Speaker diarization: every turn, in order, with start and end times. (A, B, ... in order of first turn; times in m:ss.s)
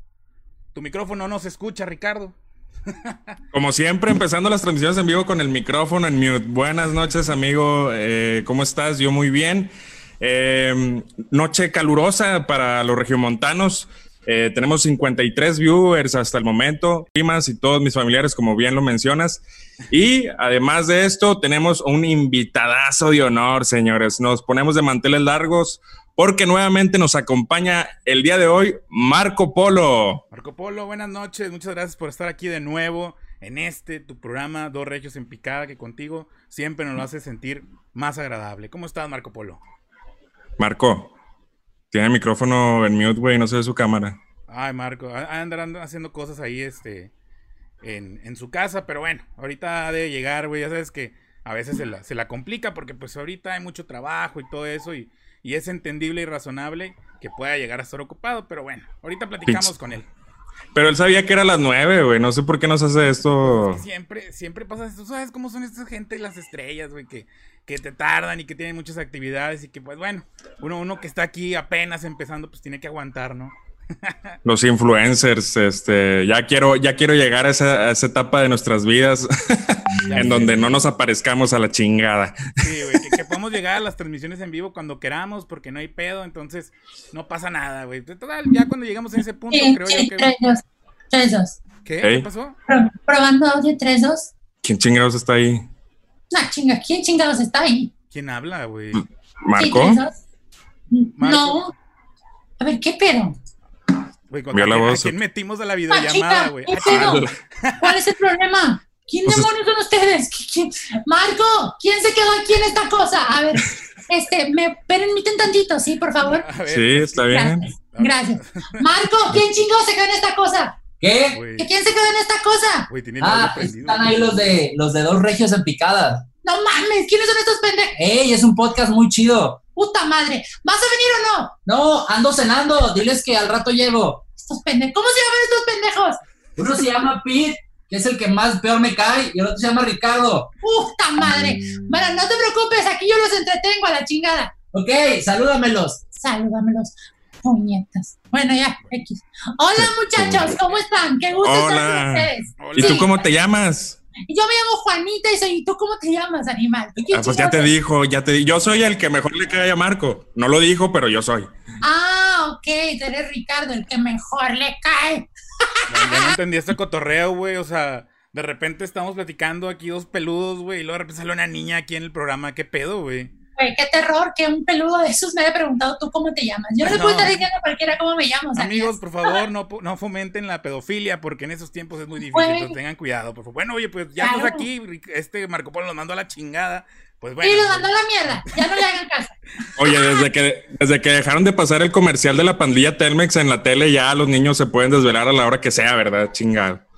0:00.7-0:02.4 A
0:02.9-0:03.4 A
0:03.5-0:30.2 B
0:30.3-0:39.6 A
0:40.6-0:41.1 B
0:41.9-0:44.2 B
0:44.5-0:47.1 A
0:47.8-1:00.1 A
0:59.4-0:59.7 B
1:00.7-1:03.8 B
1:03.4-1:14.4 A
1:14.4-1:23.2 B
1:20.1-1:20.6 A
1:22.6-1:30.3 A
1:29.5-1:31.6 C
1:31.8-1:32.6 A
1:32.7-1:34.3 C
1:34.6-1:35.6 B
1:36.3-1:37.9 C
1:38.1-1:39.0 A
1:39.4-1:40.0 B
1:39.6-1:40.2 C
1:40.9-1:41.7 C
1:41.2-1:41.7 A
1:42.6-1:43.4 C
1:44.3-1:47.9 A
1:44.5-1:45.2 B
1:45.9-1:47.3 C
1:46.8-1:47.3 B
1:47.8-1:56.5 C
1:56.2-1:57.3 A
1:56.6-1:57.7 B
1:57.3-2:00.8 C
1:57.9-1:58.8 A
2:01.0-2:01.4 D
2:01.3-2:01.7 A
2:01.6-2:02.9 C
2:02.9-2:04.6 A
2:03.2-2:06.2 D
2:06.4-2:08.0 C
2:08.0-2:09.6 D
2:09.8-2:11.5 C
2:11.6-2:14.2 D
2:14.4-2:16.2 C
2:16.6-2:20.5 D
2:20.6-2:24.5 C
2:24.7-2:26.0 D
2:26.1-2:33.1 C
2:29.7-2:30.5 B
2:31.4-2:34.0 B
2:32.6-2:33.1 A
2:34.2-2:37.7 C
2:37.1-2:41.5 B
2:41.8-2:45.3 C
2:45.9-2:53.3 A
2:45.9-2:46.4 C
2:53.6-2:59.4 C
2:56.8-2:57.4 A
2:58.6-3:08.6 A
3:02.2-3:02.8 C
3:04.2-3:04.6 C
3:07.4-3:10.2 C
3:09.8-3:16.8 B